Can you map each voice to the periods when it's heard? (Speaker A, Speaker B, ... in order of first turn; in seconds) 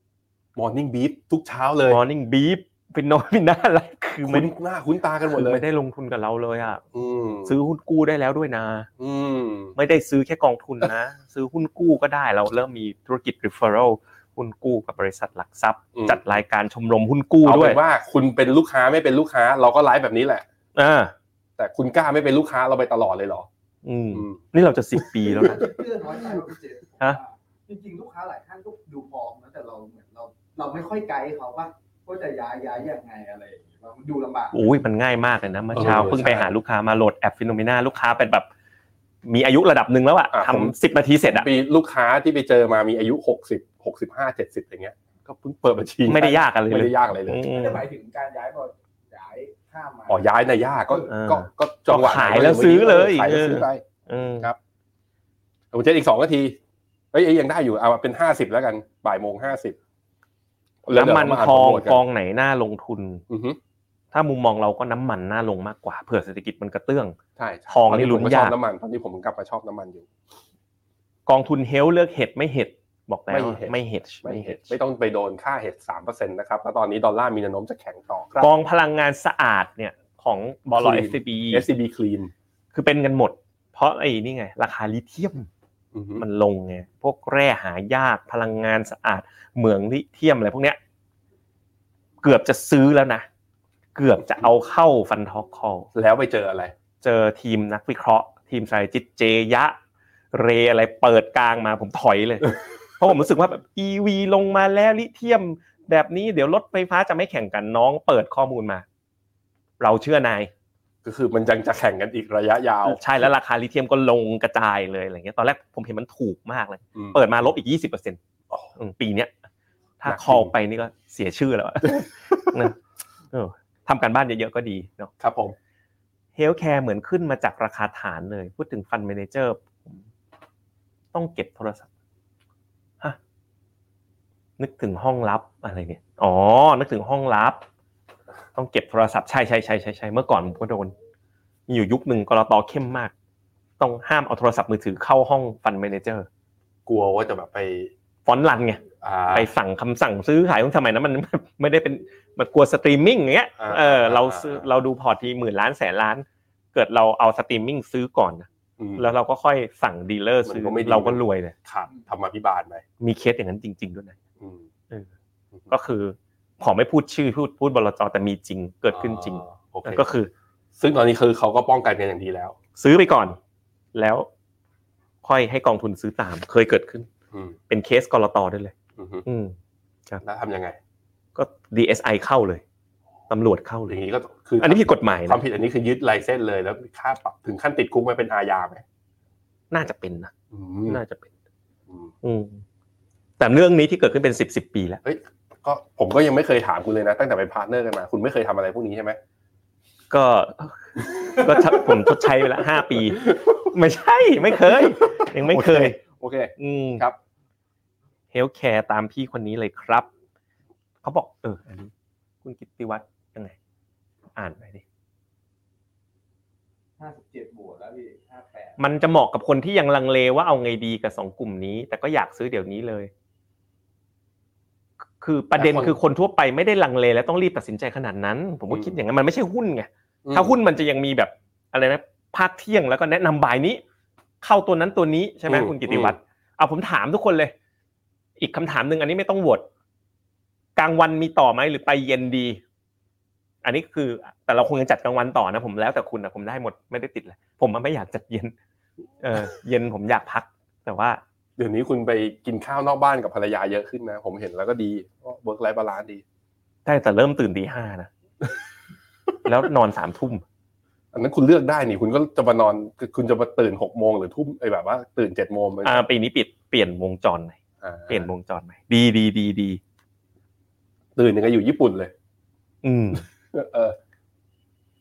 Speaker A: 0.6-2.0, 4.2-5.6, 6.9-7.5, 9.0-9.8, 15.9-16.2, 17.4-20.4, 21.6-23.5, 24.1-24.4, 24.9-25.7, 35.7-36.5, 40.3-40.7, 41.3-47.4, 50.1-53.8, 55.7-56.6, 57.1-59.8, 60.9-62.0, 63.3-63.6, 67.4-70.1, 73.3-78.5, 80.7-82.3, 85.9-86.2, 96.0-96.7, 111.0-113.0, 117.0-117.2, 120.0-120.5, 122.0-122.3, 125.2-125.5, 146.9-147.9, 149.0-149.5, 153.6-154.7, 158.8-159.1, 160.4-162.8, 164.4-164.6, 168.9-170.1, 170.8-172.6, 179.0-179.2, 180.2-180.8, 183.9-188.8, 190.5-191.0, 195.0-199.2, 201.4-201.9, 203.1-203.4, 204.6-207.2, 225.6-226.0, 228.7-228.9, 230.2-230.6, 235.5-236.2, 251.6-256.2, 261.1-266.0, 267.8-268.3, 271.2-272.1, 273.5-273.9
Speaker B: 1.9-4.5, 5.3-6.8, 7.5-8.9, 9.8-17.8, 20.8-21.1, 23.9-25.7, 34.5-38.5, 39.2-41.5, 46.0-47.8, 51.1-54.5, 60.9-63.2, 64.1-67.2, 67.7-68.5, 71.3-74.8, 78.4-81.7, 82.7-85.5, 86.2-90.8, 92.2-93.3, 94.0-95.9, 97.0-99.8, 100.3-108.8, 109.8-110.5, 112.9-118.2, 118.8-119.3, 120.0-122.8, 123.3-125.1, 126.4-130.0, 131.1-131.9, 134.6-137.6, 138.6-140.9, 141.7-143.1, 143.8-146.3, 148.3-161.5, 163.0-164.2, 165.7-170.3, 172.8-173.4, 173.9-174.3, 175.2-177.1, 177.7-178.7, 179.2-179.6, 181.4-182.6, 183.3-183.9, 184.6-185.4, 189.7-190.3, 190.9-191.3, 192.2-192.6, 193.4-195.0, 200.1-206.0, 206.6-207.0, 208.3-210.1, 211.0-211.9, 212.4-213.6, 214.4-214.8, 218.8-223.1, 225.2-233.8, 234.4-237.5, 238.4-239.7, 240.8-242.6, 243.6-248.5, 249.2-251.2, 256.9-258.1, 259.4-260.4, 265.8-269.8, 272.8-273.2
Speaker C: 25.5-34.5, 47.5-50.2, 217.0-218.8